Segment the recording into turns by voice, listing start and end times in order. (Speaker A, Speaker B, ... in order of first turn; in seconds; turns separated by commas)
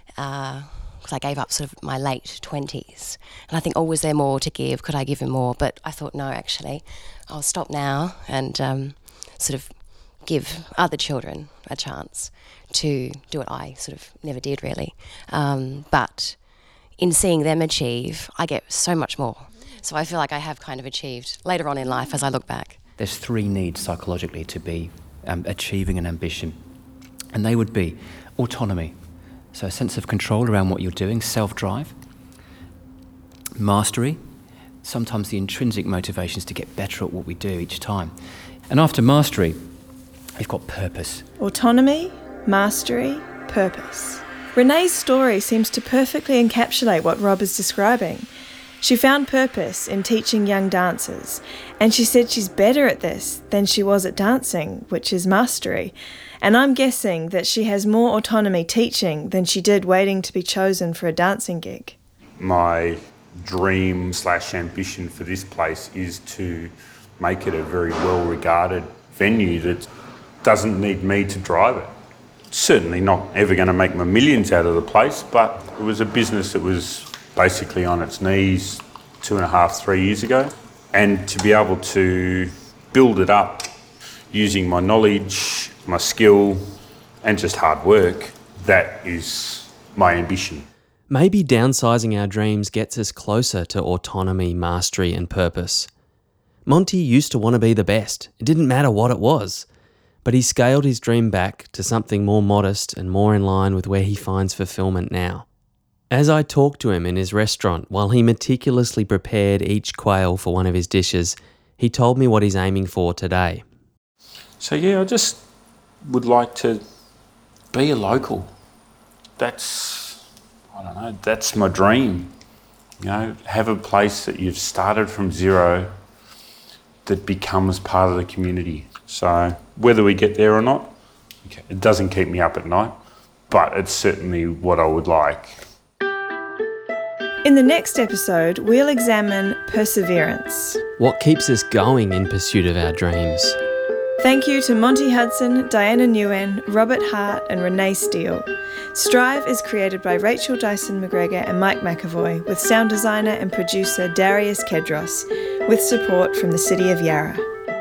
Speaker A: 0.2-16.4, Speaker A: 17.0-22.8, Speaker B: 23.0-26.6, Speaker B: 27.3-29.0, Speaker B: 29.5-31.9, Speaker B: 33.6-34.2, Speaker B: 34.8-38.2, Speaker B: 38.7-39.6, Speaker B: 40.4-41.2, Speaker C: 41.4-48.3, Speaker C: 48.8-62.0, Speaker D: 62.4-69.9, Speaker D: 70.4-71.9, Speaker D: 72.5-83.7, Speaker D: 84.3-86.6, Speaker D: 87.2-90.7, Speaker E: 91.1-95.9, Speaker E: 96.7-99.7, Speaker E: 100.2-105.5, Speaker E: 106.1-113.6, Speaker D: 114.6-115.4, Speaker D: 116.0-116.8, Speaker D: 117.7-118.5, Speaker D: 119.4-120.2, Speaker D: 120.8-122.3, Speaker D: 123.0-125.9, Speaker D: 127.0-130.9, Speaker D: 131.5-133.0, Speaker D: 133.5-135.6, Speaker C: 137.4-140.8, Speaker E: 141.0-143.6, Speaker C: 144.2-157.4